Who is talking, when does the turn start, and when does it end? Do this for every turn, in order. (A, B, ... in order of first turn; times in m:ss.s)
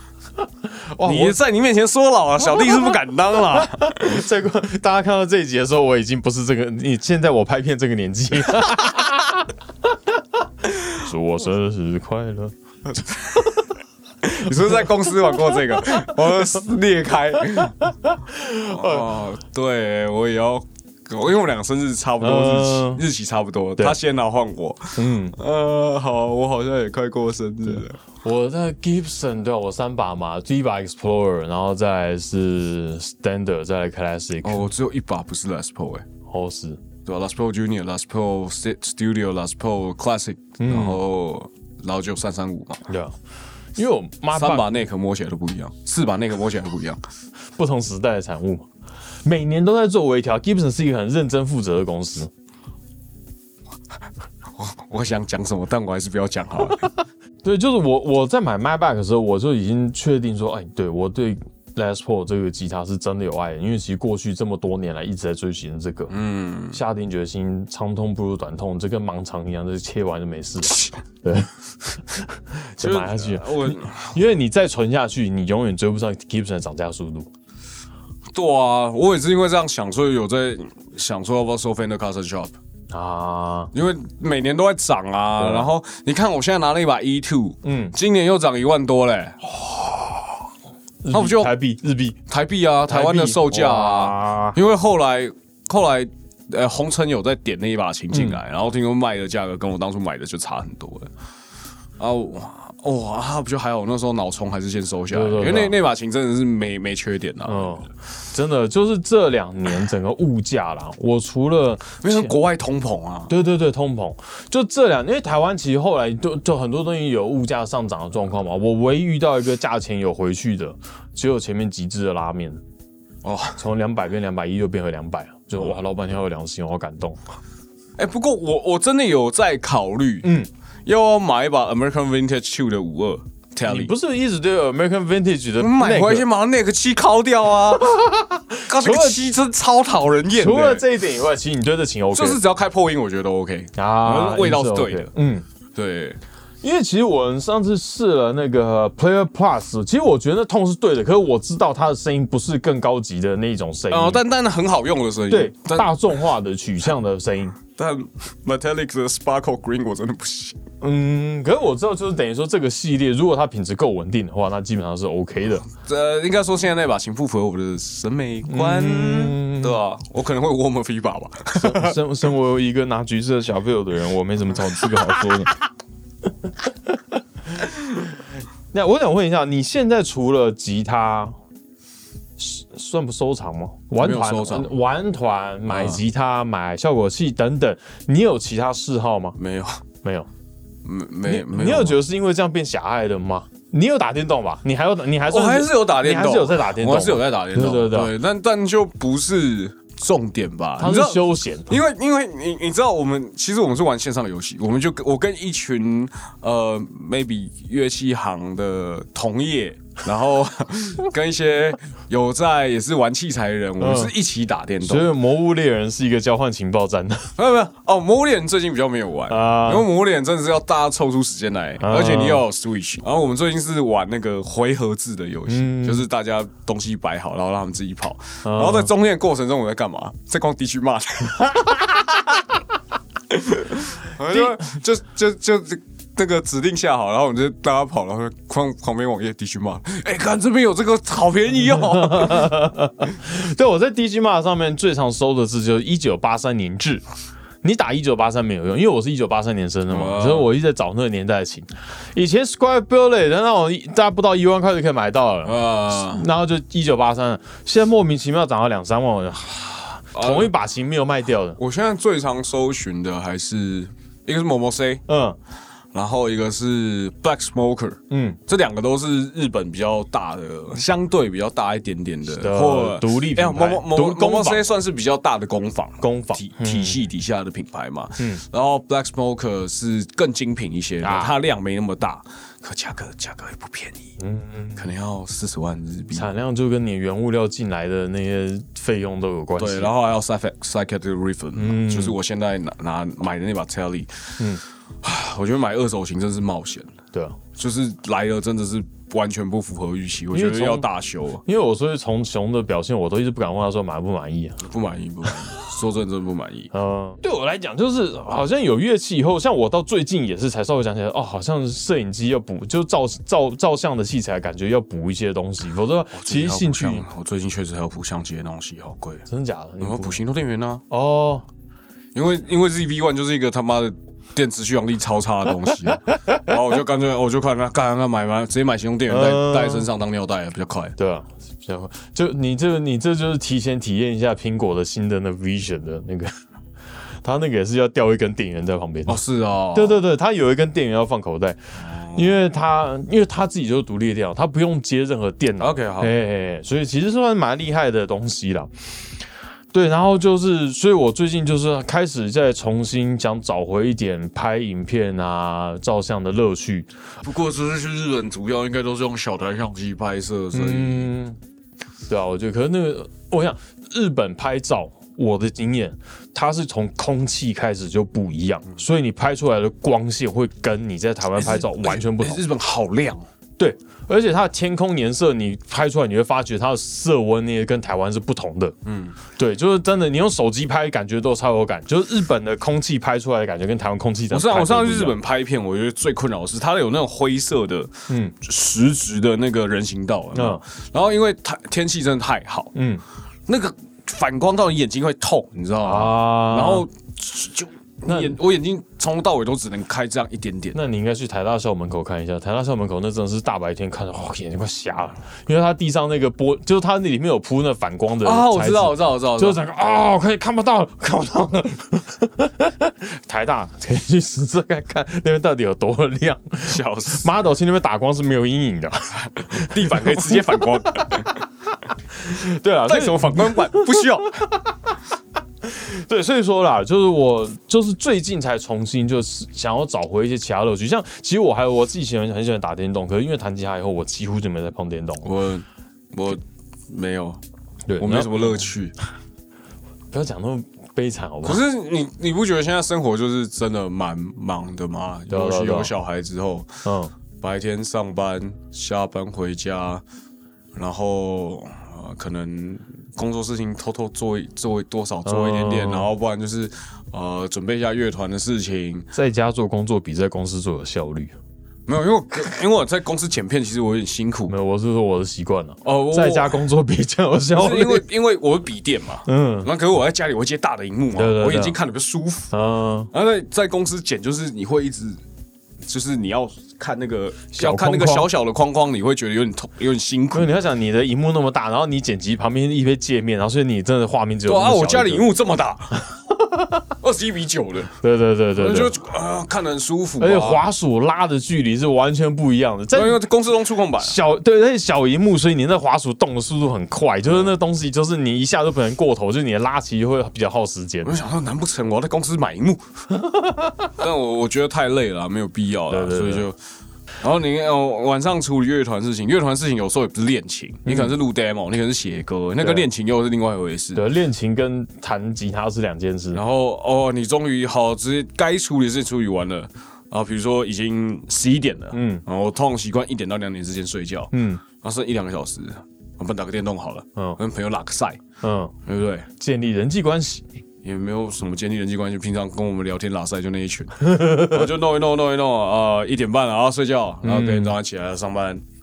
0:00.6-0:01.4 A
0:01.0-0:04.3 B
0:03.5-0:09.5 A
0:10.9-0:13.7 A
0:13.0-0:13.6 B
0:14.2-0:17.9 B
0:14.8-0:16.1 A
0:17.5-0:19.1 A
0:18.6-0:28.0 B
0:22.2-0:23.0 A
0:24.9-0:25.4 A
0:28.2-0:34.7 A
0:34.4-0:36.0 B
0:36.3-0:36.8 A
0:37.0-0:42.8 B
0:40.6-0:41.0 A
0:42.9-0:43.1 A
0:43.8-0:44.7 A
0:44.3-0:47.0 B
0:47.6-0:48.7 A
0:49.2-0:52.3 A
0:54.5-0:56.9 B
0:57.4-1:06.1 A
1:06.1-1:06.8 B
1:06.7-1:17.3 A
1:12.8-1:14.2 B
1:18.3-1:22.5 B
1:22.9-1:23.7 A
1:23.7-1:29.4 B
1:25.4-1:25.7 A
1:27.6-1:27.9 A
1:29.4-1:30.5 A
1:31.0-1:32.2 A
1:31.1-1:31.5 B
1:32.3-1:41.1 B
1:32.9-1:34.6 A
1:38.1-1:38.4 A
1:42.0-1:47.9 B
1:45.1-1:45.8 A
1:47.4-1:52.3 A
1:52.0-1:53.3 B
1:53.3-2:02.6 A
2:03.2-2:03.6 B
2:03.6-2:07.2 A
2:08.0-2:10.3 B
2:10.2-2:10.5 A
2:10.8-2:13.9 B
2:13.6-2:16.2 A
2:15.6-2:18.0 B
2:17.8-2:19.3 A
2:18.7-2:20.8 B
2:20.4-2:22.4 A
2:22.1-2:25.1 B
2:23.7-2:25.4 A
2:25.7-2:26.2 B
2:26.6-2:34.2 A
2:33.9-2:35.9 B
2:35.3-2:37.6 A
2:37.8-2:40.6 B
2:40.8-2:45.7 A
2:45.7-2:52.0 B
2:48.4-2:49.8 A
2:51.5-2:55.6 A
2:54.8-2:55.5 B
2:56.4-2:57.2 A
2:58.7-3:01.4 A
3:02.4-3:09.4 A
3:04.0-3:04.7 B
3:05.7-3:06.0 B
3:09.4-3:09.8 B
3:10.0-3:10.3 A
3:10.8-3:12.0 B
3:11.2-3:18.1 A
3:15.3-3:35.1 B
3:20.8-3:21.8 A
3:33.8-3:34.1 A
3:34.8-3:37.3 A
3:37.4-3:52.5 B
3:39.3-3:39.9 A
3:41.8-3:42.4 A
3:45.5-3:46.0 A
3:48.4-3:48.9 A
3:53.3-4:02.6 B
3:54.2-3:54.6 A
4:01.8-4:07.0 A
4:07.6-4:21.6 A
4:09.9-4:10.5 B
4:15.4-4:16.2 B
4:20.1-4:20.5 B
4:21.6-4:25.0 B
4:25.1-4:25.4 A
4:25.9-4:44.1 B
4:28.1-4:28.4 A
4:32.3-4:34.7 A
4:36.0-4:37.0 A
4:38.2-4:38.4 A
4:41.0-4:41.3 A
4:44.2-4:44.8 A
4:44.8-4:46.3 B
4:46.1-4:49.9 A
4:49.6-4:54.4 B
4:51.6-4:52.2 A
4:55.0-4:56.9 B
4:57.5-5:01.4 B
5:00.3-5:00.8 A
5:01.4-5:04.6 A
5:04.6-5:06.7 B
5:05.2-5:05.7 A
5:06.7-5:17.0 A
5:16.1-5:19.2 B
5:19.3-5:20.2 A
5:19.8-5:20.8 B
5:20.9-5:21.4 A
5:22.1-5:30.9 B
5:26.0-5:26.5 A
5:29.1-5:29.8 A
5:31.0-5:36.3 A
5:37.2-5:39.2 A
5:39.1-5:40.0 B
5:39.7-5:41.6 A
5:41.8-5:42.4 B
5:42.1-5:48.7 A
5:45.6-5:46.1 B
5:49.7-5:56.9 A
5:57.2-6:01.1 B
6:00.5-6:01.4 A
6:02.1-6:12.4 A
6:11.4-6:13.2 B
6:13.6-6:18.7 A
6:18.8-6:19.2 B
6:19.4-6:25.1 A
6:24.3-6:32.7 B
6:28.1-6:28.3 A
6:30.3-6:30.6 A
6:32.7-6:33.0 A
6:33.5-6:40.8 B
6:35.8-6:36.8 A
6:38.1-6:38.4 A
6:40.7-7:01.4 A
6:48.2-6:49.6 B
6:56.6-6:57.3 B
6:59.2-7:01.4 B
7:02.1-7:04.9 A
7:02.8-7:04.4 B
7:05.6-7:15.3 A
7:15.2-7:17.4 B
7:17.9-7:18.7 A
7:18.0-7:18.9 B
7:20.1-7:21.6 A
7:21.4-7:26.7 B
7:25.3-7:25.9 A
7:26.8-7:27.1 A
7:27.4-7:30.0 B
7:30.7-7:39.1 B
7:35.2-7:36.1 A
7:39.1-7:41.3 A
7:41.9-7:44.5 B
7:44.5-7:48.0 A
7:45.8-7:46.6 B
7:47.5-7:52.5 B
7:49.2-7:49.7 A
7:51.1-7:51.8 A
7:52.5-7:53.1 A
7:53.1-7:55.2 B
7:55.8-8:00.5 B
7:57.5-7:58.3 A
8:00.3-8:05.3 A
8:04.4-8:06.0 B
8:06.0-8:06.9 A
8:07.0-8:07.9 B
8:08.0-8:08.9 A
8:08.5-8:10.6 B
8:10.2-8:13.2 A
8:12.9-8:14.2 B
8:14.0-8:21.2 A
8:21.0-8:22.8 B
8:23.2-8:23.9 A
8:24.0-8:26.6 B
8:25.9-8:26.5 A
8:27.2-8:34.0 B
8:30.8-8:31.2 A
8:32.6-8:32.9 A
8:33.9-8:36.4 A
8:36.3-8:48.2 B
8:41.9-8:42.2 A
8:44.3-8:44.6 A
8:48.4-8:48.7 A
8:48.8-8:49.3 B
8:49.4-8:50.4 A
8:50.8-8:58.6 B
8:54.0-8:54.7 A
8:57.2-8:57.8 A